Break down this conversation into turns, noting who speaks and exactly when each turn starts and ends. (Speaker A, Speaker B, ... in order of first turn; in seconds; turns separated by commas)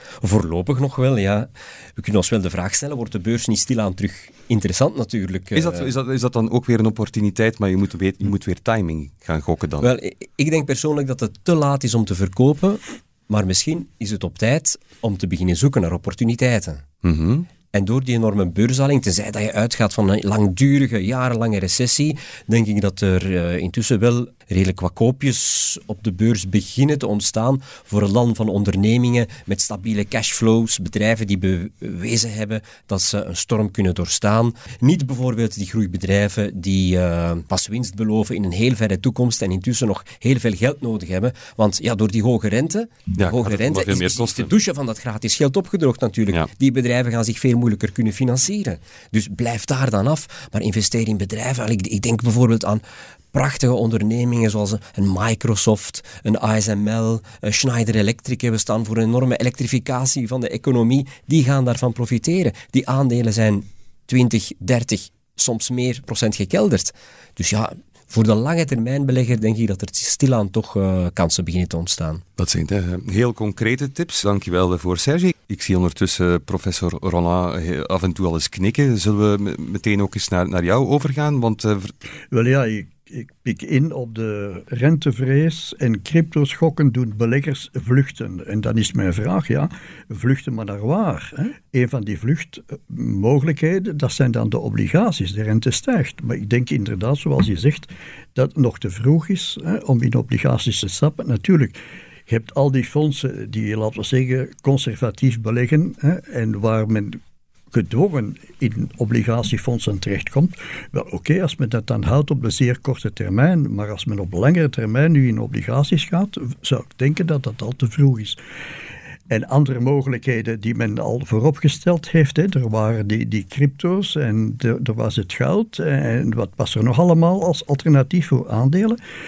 Speaker A: 0.2-5.9, Speaker B: 5.5-9.9, Speaker A: 9.8-16.8, Speaker B: 17.0-17.5, Speaker A: 17.7-52.8, Speaker B: 43.2-44.5, Speaker A: 53.3-72.2, Speaker B: 72.4-81.9, Speaker C: 82.3-107.2, Speaker C: 107.7-118.4, Speaker C: 119.3-129.0